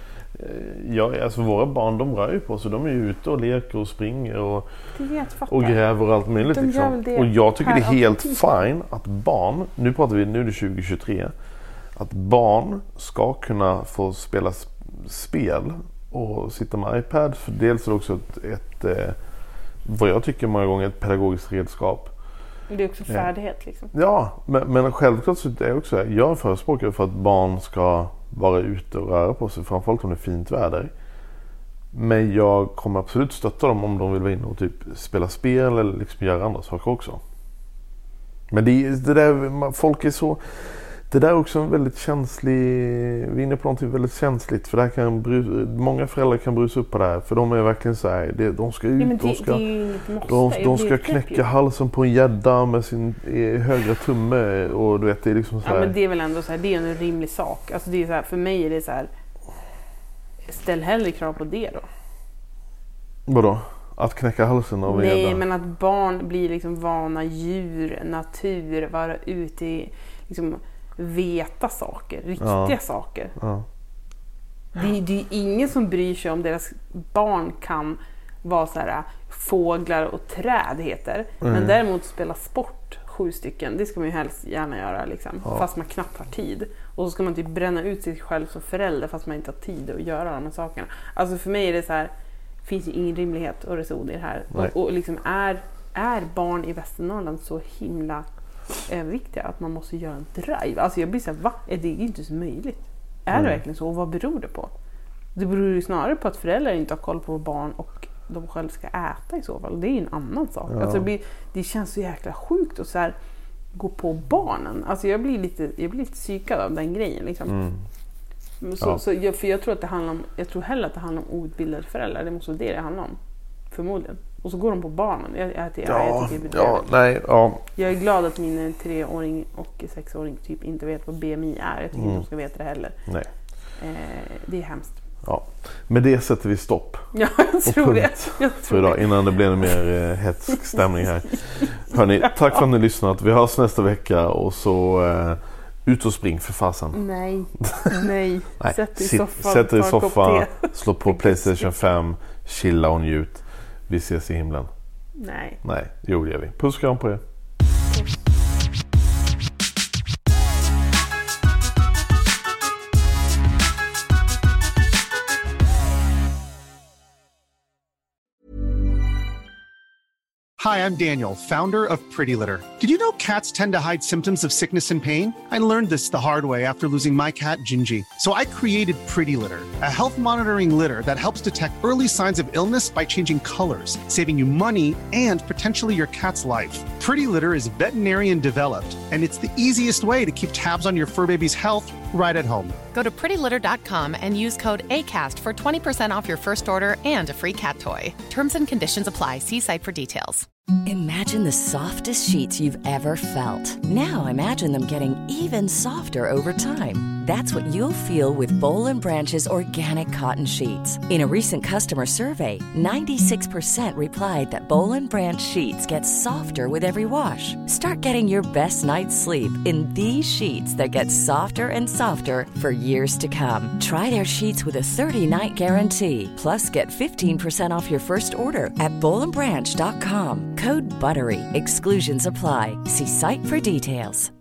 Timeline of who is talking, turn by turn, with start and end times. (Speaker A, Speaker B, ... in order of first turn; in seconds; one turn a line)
Speaker A: 0.3-4.7
Speaker B: 4.9-5.8
Speaker A: 5.5-11.3
Speaker B: 6.3-8.7
Speaker A: 11.9-19.2
Speaker A: 19.8-22.1
Speaker B: 22.7-23.9
Speaker A: 23.9-30.9
Speaker A: 31.9-37.2
Speaker A: 38.5-49.6
Speaker B: 49.0-51.5
Speaker A: 50.2-55.9
Speaker B: 55.6-59.1
Speaker B: 60.5-61.9
Speaker A: 63.3-65.4
Speaker B: 64.9-73.3
Speaker A: 72.4-72.8
Speaker A: 73.3-73.6
Speaker B: 74.7-92.1
Speaker A: 81.4-81.8
Speaker B: 92.6-98.2
Speaker B: 98.8-104.7
Speaker A: 103.3-103.6
Speaker B: 105.3-113.2
Speaker A: 110.7-111.1
Speaker B: 113.7-117.6
Speaker A: 117.5-117.8
Speaker B: 118.6-123.2
Speaker B: 123.7-126.9
Speaker A: 125.8-127.6
Speaker B: 127.8-133.0
Speaker A: 131.9-132.2
Speaker B: 133.8-135.0
Speaker A: 135.2-137.1
Speaker B: 137.1-139.8
Speaker A: 137.6-147.0
Speaker B: 140.5-142.7
Speaker B: 146.9-151.9
Speaker A: 147.6-147.9
Speaker A: 148.6-154.7
Speaker B: 155.2-155.6
Speaker A: 155.6-157.2
Speaker B: 157.9-158.2
Speaker C: 170.6-192.8
Speaker D: 192.9-200.5
Speaker E: 200.8-234.3